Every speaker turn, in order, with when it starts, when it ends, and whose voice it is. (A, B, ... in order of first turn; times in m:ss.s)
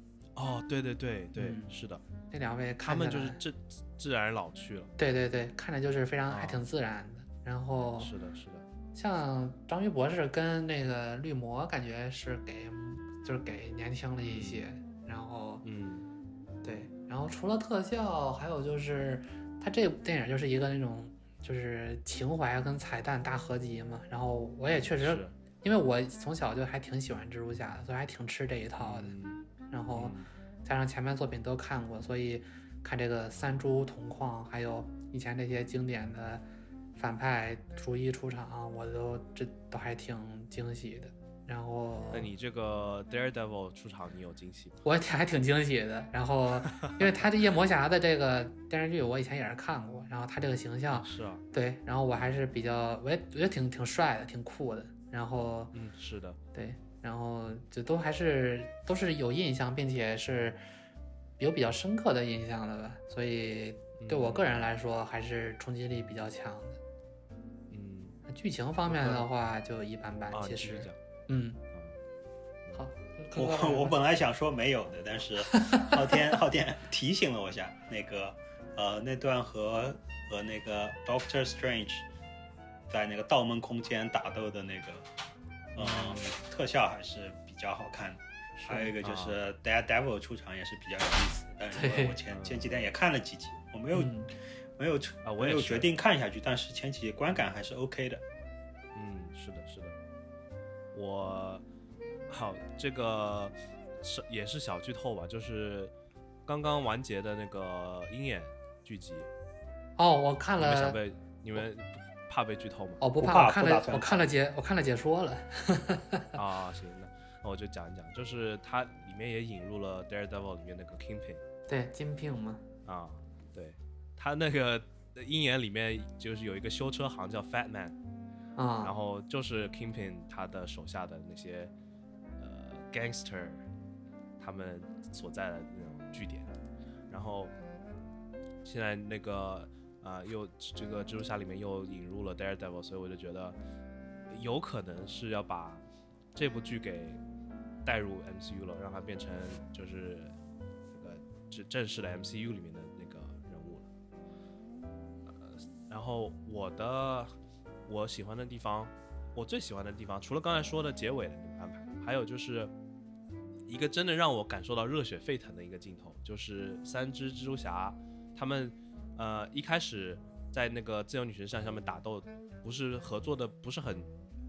0:00.4-0:02.0 A
0:01.4-0:01.7 B
0:02.3-0:03.4 B
0:02.8-0:04.9 A
0:05.0-0:08.1 B
0:06.3-0:06.6 A
0:08.0-0:08.7 A
0:09.0-0:15.6 B
0:14.2-0:14.6 A
0:15.6-0:16.1 A
0:16.6-0:29.2 B
0:24.9-0:25.3 A
0:28.8-0:30.3 A
0:29.7-0:36.4 B
0:37.0-0:42.3 B
0:42.1-0:44.8 A
0:44.8-0:55.7 B
0:46.7-0:47.2 A
0:50.9-0:51.4 A
0:52.1-0:52.4 A
0:55.7-0:56.4 A
0:56.5-1:00.6 B
1:01.4-1:06.8 B
1:04.0-1:04.7 A
1:07.7-1:08.2 A
1:08.3-1:11.6 B
1:08.9-1:09.3 A
1:10.3-1:11.0 A
1:12.8-1:14.0 B
1:13.4-1:22.1 C
1:15.5-1:16.0 B
1:22.9-1:25.1 C
1:25.8-1:34.1 C
1:25.8-1:26.3 A
1:28.6-1:28.9 B
1:29.0-1:29.4 A
1:31.7-1:32.2 B
1:32.3-1:32.8 A
1:33.9-1:34.3 B
1:34.8-1:38.2 C
1:35.2-1:35.9 A
1:38.9-1:40.0 A
1:40.9-1:41.6 A
1:42.3-1:45.9 A
1:46.5-1:49.3 A
1:50.0-1:51.0 B
1:50.6-1:53.0 A
1:53.0-1:56.3 B
1:53.2-1:54.3 C
1:56.4-2:01.4 A
2:01.7-2:02.6 B
2:02.8-2:08.0 A
2:08.6-2:08.9 B
2:08.8-2:11.7 A
2:12.4-2:13.6 A
2:14.4-2:16.5 A
2:17.1-2:17.5 A
2:18.6-2:23.6 A
2:24.3-2:25.8 A
2:26.4-2:27.2 A
2:27.8-2:30.3 A
2:30.9-2:33.9 A
2:35.3-2:37.3 A
2:37.9-2:42.7 A
2:43.7-2:54.1 A